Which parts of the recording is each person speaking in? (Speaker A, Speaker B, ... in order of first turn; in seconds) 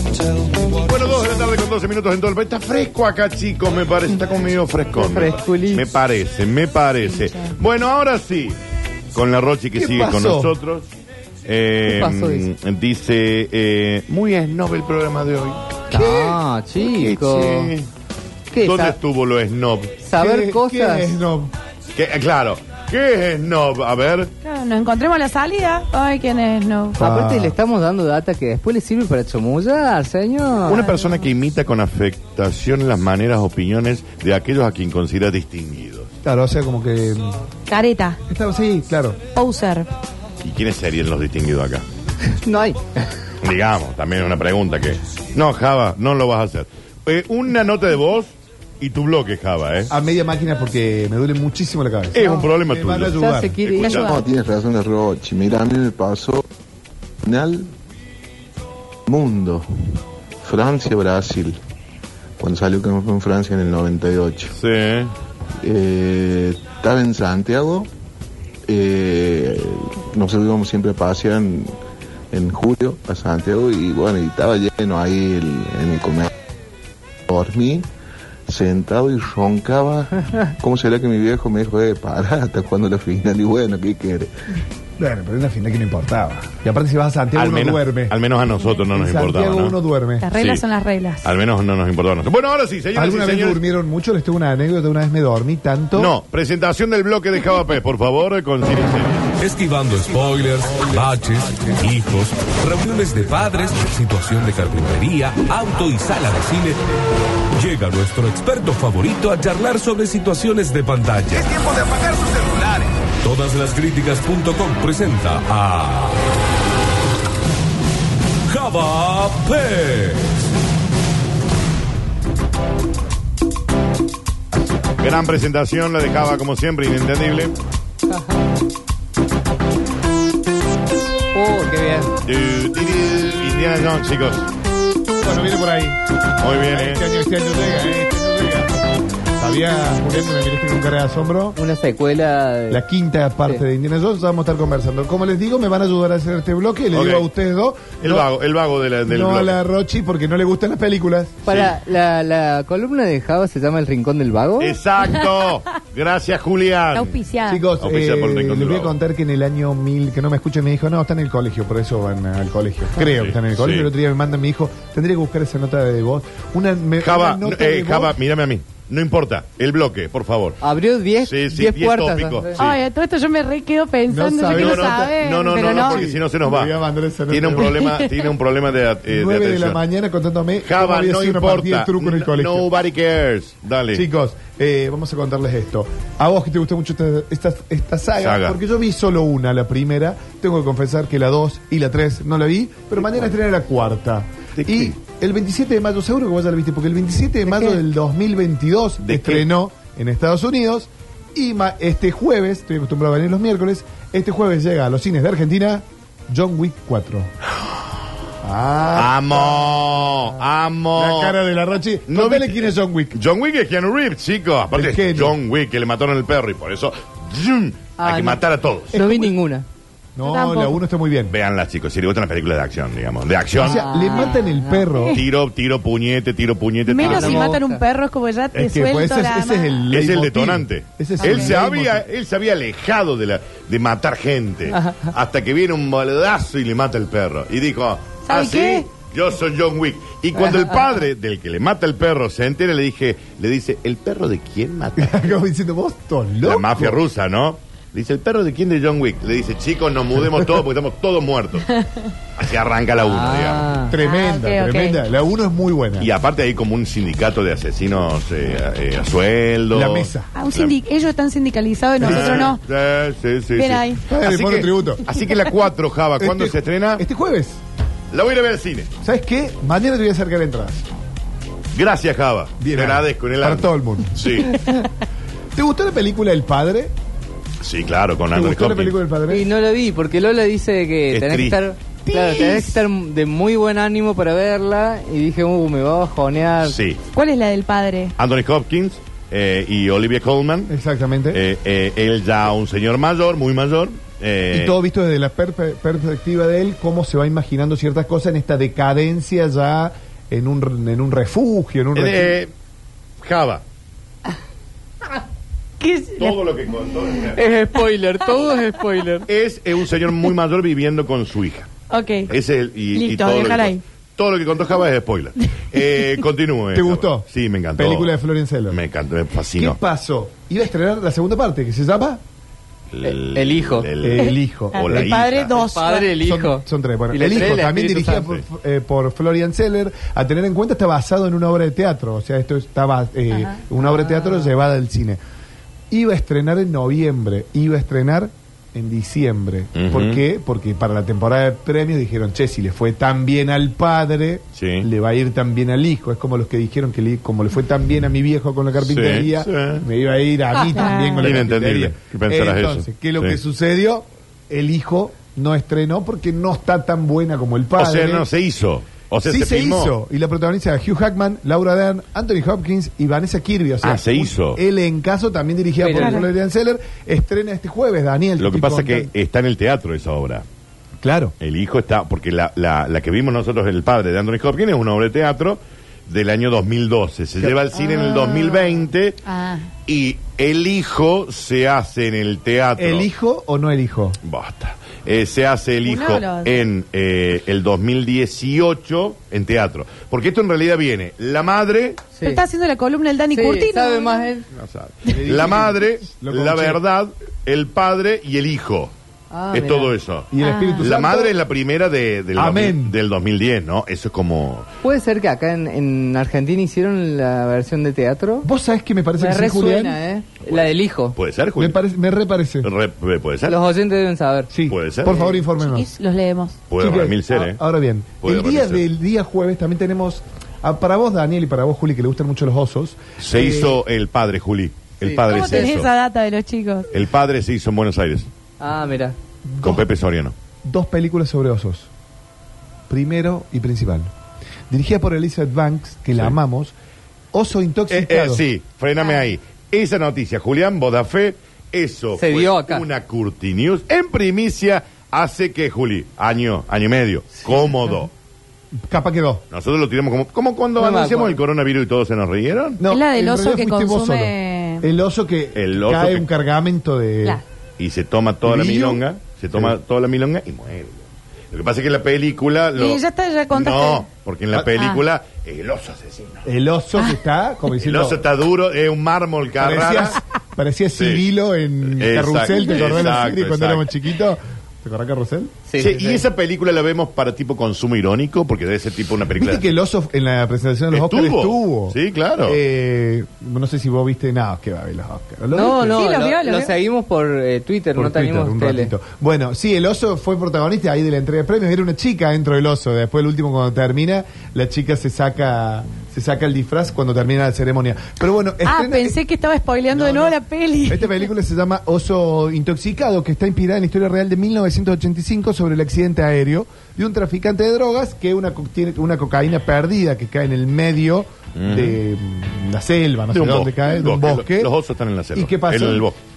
Speaker A: 0.7-8.6, 9.1-10.9, 11.4-16.2, 16.8-17.9, 18.6-20.0, 21.9-24.3, 30.7-36.1, 40.4-41.8, 43.4-49.9, 52.1-54.1, 64.5-65.1, 87.3-89.8, 90.4-90.6, 91.2-93.6, 96.0-99.4, 125.0-127.5, 132.2-134.5, 136.4-137.0, 146.9-147.3, 148.0-149.6, 151.5-151.8, 154.6-157.2, 157.8-158.9, 163.0-163.9, 167.0-170.6, 171.2-172.8, 174.5-176.8, 177.3-179.8, 180.6-184.1, 188.2-188.6, 194.6-194.9, 199.0-199.4, 208.9-211.4, 212.1-219.2, 221.3-223.9, 225.1-227.6, 229.9-245.4, 246.4-251.7, 252.4-253.7, 256.0-260.8, 262.0-267.0, 268.1-268.9, 271.7-274.7, 277.6-278.9, 281.1-282.8, 286.6-287.0, 288.2-290.7, 291.3-294.7, 301.9-302.5, 303.2-303.6, 306.2-307.4, 309.3-311.7, 312.3-318.1, 318.7-319.8, 322.9-325.6, 339.8-340.2, 344.6-344.9, 348.8-349.9, 351.2-353.4, 357.8-359.9, 363.8-364.6, 368.4-370.4, 371.4-379.2, 379.9-383.1, 384.2-392.1, 394.5-398.9, 399.5-404.7, 410.4-411.8, 412.6-413.6, 414.7-415.4, 416.7-417.6, 418.2-418.9, 423.2-425.9, 426.9-428.3, 429.6-430.3, 437.9-448.1, 449.5-452.8, 455.6-456.2, 457.8-466.4, 467.8-470.2, 470.9-471.2, 471.9-474.0, 475.8-479.7, 480.9-482.6, 511.6-512.0, 513.3-516.2
Speaker B: 4.9-5.9, 11.9-12.5, 15.9-17.7, 18.5-19.0, 20.0-21.2, 27.0-30.8, 42.2-43.1, 53.1-54.2, 128.1-128.4, 131.3-132.1, 141.6-142.8, 151.4-154.8, 170.6-172.6, 218.0-219.7, 223.6-224.9, 227.0-227.8, 234.7-235.1, 240.4-240.8, 253.0-254.0, 279.3-286.8, 307.3-309.3, 323.0-323.9, 325.5-328.2, 333.8-334.5, 365.8-366.2, 392.2-392.4, 393.3-394.5, 399.3-399.9, 404.8-408.5, 409.2-411.2, 413.5-414.5, 425.0-425.6, 428.6-429.1, 442.2-442.9, 450.8-451.4, 475.7-476.2, 485.5-488.9
Speaker C: 7.0-7.5, 24.4-27.0, 30.8-31.3, 37.7-38.2, 39.3-39.9, 53.8-54.2, 90.2-91.3, 156.9-157.6, 172.6-176.0, 177.6-178.3, 220.2-220.8, 224.9-225.2, 226.9-229.9, 231.2-231.6, 238.3-238.9, 254.0-255.0, 260.4-262.6, 263.6-264.0, 287.1-288.1, 305.8-306.4, 311.9-312.3, 312.9-313.8, 324.2-326.1, 333.3-333.6, 350.5-351.4, 365.9-366.2, 377.9-378.8, 379.2-379.7, 385.8-386.6, 392.2-394.3, 400.4-400.9, 415.6-416.6, 425.3-426.9, 452.9-454.9, 462.8-464.1, 464.8-465.0, 472.5-473.0, 485.9-486.8, 498.6-501.2
Speaker D: 9.7-10.5, 15.9-16.3, 20.1-21.5, 27.0-27.5, 36.2-37.4, 38.3-39.2, 49.9-53.6, 85.0-88.2, 88.9-90.3, 93.0-96.1, 135.2-141.6, 142.7-148.3, 149.1-151.4, 157.5-168.2, 174.1-177.8, 179.1-182.7, 183.9-207.3, 208.4-209.8, 211.0-213.2, 214.7-215.4, 220.2-221.3, 223.5-225.2, 228.6-232.1, 245.0-247.0, 253.9-256.1, 259.7-260.3, 262.0-262.5, 264.1-265.4, 266.2-267.6, 269.0-270.9, 272.6-274.4, 275.5-276.9, 278.3-279.4, 290.7-291.4, 294.5-302.4, 316.7-318.8, 319.6-322.2, 324.0-325.3, 326.2-335.2, 335.9-358.2, 359.2-369.1, 371.0-371.4, 382.8-384.2, 395.1-396.8, 400.3-401.4, 402.4-402.9, 408.4-410.0, 411.6-412.7, 414.5-415.9, 416.8-423.8, 429.4-429.9, 430.6-431.9, 432.9-434.1, 434.7-436.7, 437.3-438.4, 448.9-449.4, 452.8-457.4, 458.4-459.8, 466.4-468.2, 469.6-475.5, 479.4-486.1, 487.9-499.2, 499.9-514.7, 515.3-516.1
Speaker E: 53.9-56.5, 57.2-57.7, 59.0-61.6, 62.4-64.5, 65.6-67.9, 68.7-71.8, 72.3-76.3, 77.3-77.9, 78.5-84.3
Speaker F: 99.4-106.8, 107.5-116.2, 118.5-120.4